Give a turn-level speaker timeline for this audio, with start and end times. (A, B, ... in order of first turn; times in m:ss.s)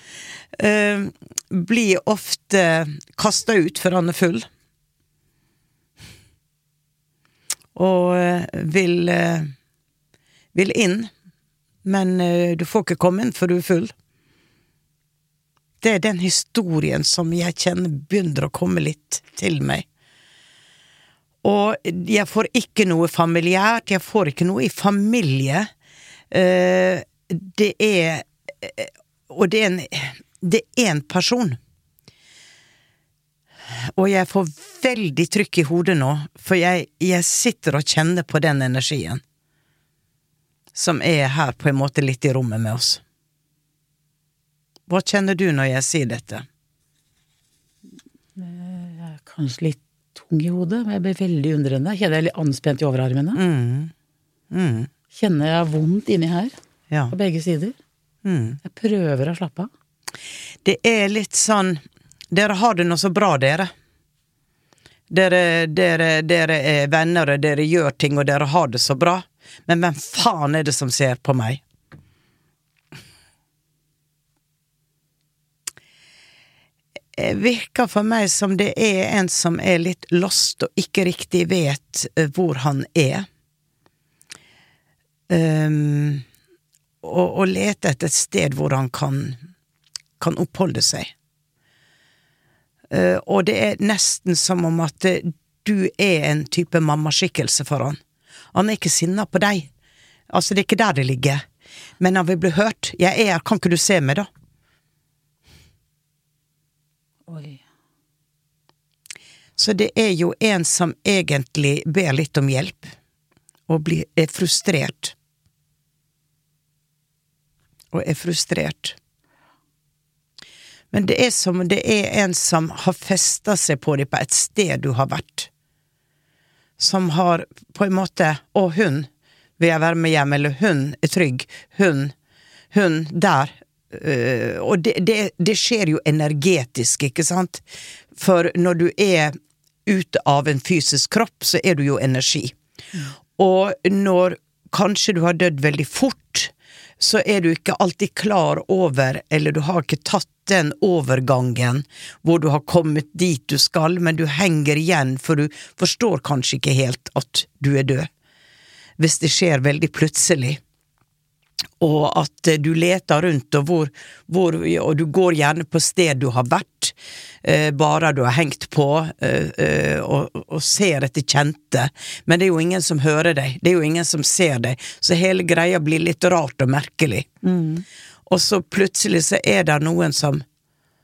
0:00.5-0:04.5 A
0:07.7-0:09.5 A
0:10.5-0:11.1 A
0:11.8-0:13.9 A
0:15.8-0:19.8 A
0:21.4-0:25.7 A
0:26.3-0:31.6 A
0:33.7-0:39.2 A
0:40.7-0:43.0 A
0:44.9-0:46.4 A
0:48.4-0:53.4 B
0:53.3-0:53.9 A
0:54.5-0:54.9 A
0:55.1-0:56.5 B
0:57.1-0:57.8 B
0:58.2-0:58.6 A
0:58.6-0:59.7 B
1:00.6-1:03.7 A
1:05.1-1:11.6 A
1:17.1-1:23.3 A
1:25.3-1:26.2 A
1:27.0-1:29.4 A
1:30.2-1:31.1 A
1:32.9-1:38.0 A
1:38.5-1:39.7 A
1:40.3-1:41.4 A
1:42.0-1:44.3 A
1:47.3-1:47.6 B
1:49.6-1:52.9 A
1:53.7-1:55.1 A
1:57.9-1:59.0 A
2:00.9-2:05.5 A
2:06.8-2:12.1 A
2:12.7-2:17.6 A
2:18.2-2:22.6 A
2:23.3-2:38.1 A
2:39.0-2:40.6 A
2:41.8-2:57.4 A
2:57.4-2:57.8 B
2:58.3-3:00.4 A